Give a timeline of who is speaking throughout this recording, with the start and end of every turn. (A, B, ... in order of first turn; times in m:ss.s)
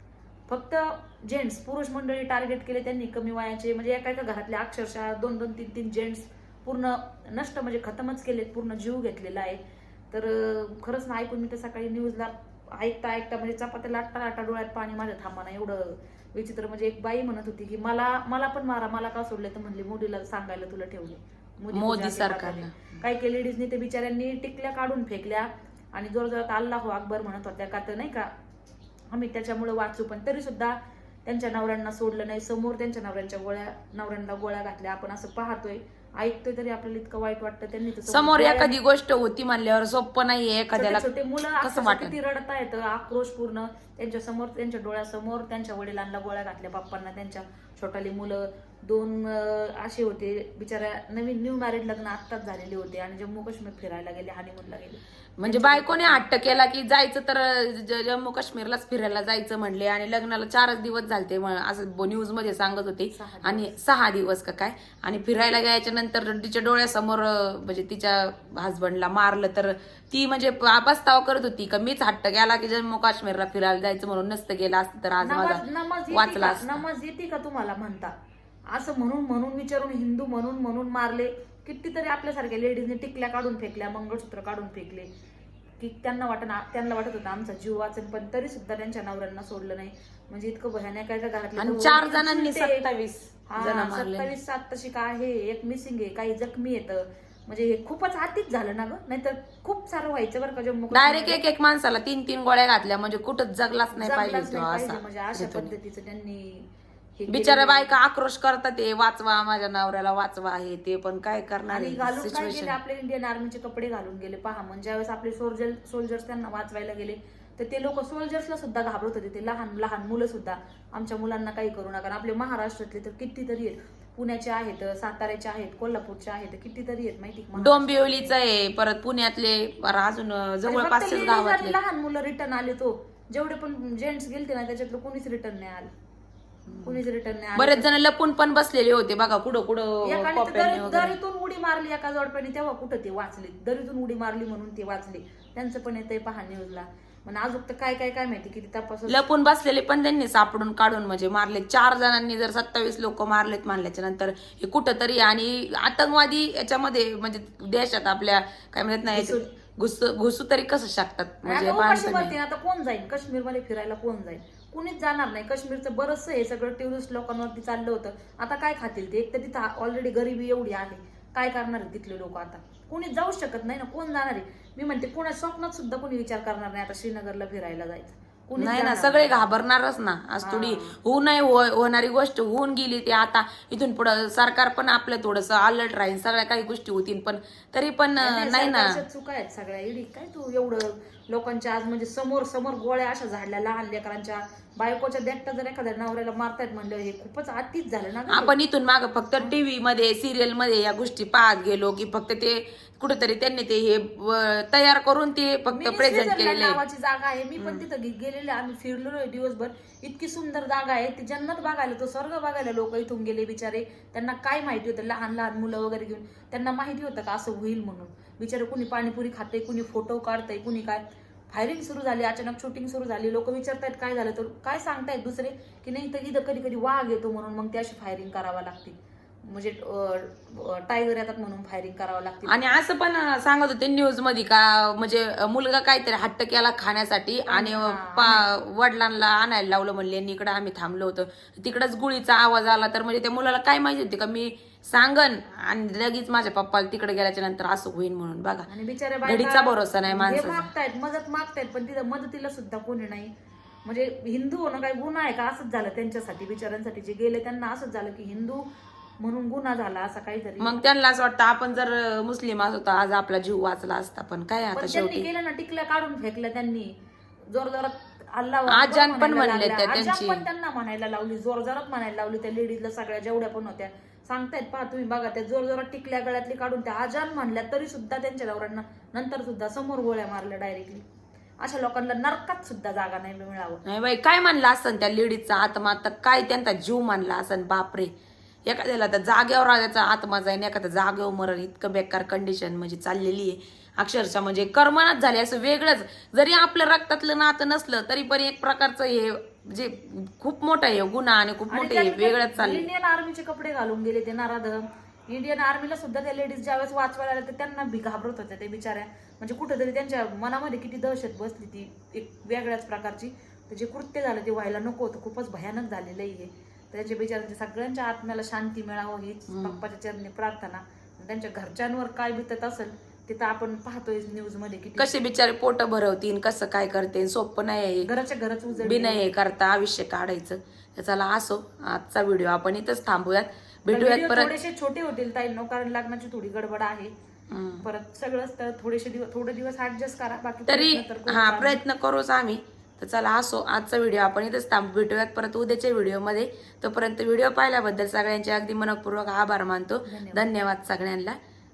0:00.5-0:28.3 A
0:21.7-0:23.0 B
0:29.1-0:38.7 A
0:38.1-0:42.1 B
0:40.7-0:56.2 A
0:55.4-1:16.8 B
1:03.1-1:03.7 A
1:15.2-1:18.1 A
1:18.7-1:25.1 A
1:25.8-1:32.8 A
1:31.6-1:34.3 B
1:33.5-1:41.4 A
1:40.9-1:45.7 B
1:43.9-1:48.0 A
1:47.3-1:52.8 B
1:51.7-2:08.3 A
2:07.6-2:11.8 B
2:10.6-2:15.9 A
2:16.7-2:17.0 B
2:16.8-2:17.9 A
2:17.6-2:21.2 B
2:20.0-2:29.2 A
2:29.1-2:42.3 B
2:39.1-2:39.4 A
2:41.4-2:59.4 A
2:58.6-3:09.0 B
3:00.4-3:01.0 A
3:08.2-3:18.5 A
3:18.3-3:26.8 B
3:25.7-3:52.8 A
3:27.6-3:27.8 B
3:52.4-4:08.7 B
3:57.5-3:58.5 A
4:08.7-4:13.3 A
4:09.2-4:10.7 B
4:13.8-4:18.7 A
4:19.2-4:20.8 A
4:20.6-4:25.2 B
4:24.7-4:27.0 A
4:27.5-4:41.0 A
4:28.7-4:30.4 B
4:41.6-4:43.8 A
4:43.9-4:48.1 B
4:48.6-5:02.9 B
5:01.7-5:25.1 A
5:19.5-5:19.8 B
5:25.0-5:28.1 B
5:28.0-5:29.2 A
5:28.7-5:34.5 B
5:33.9-5:37.1 A
5:37.5-5:37.8 B
5:37.8-5:41.8 A
5:40.7-5:51.4 B
5:50.0-5:50.4 A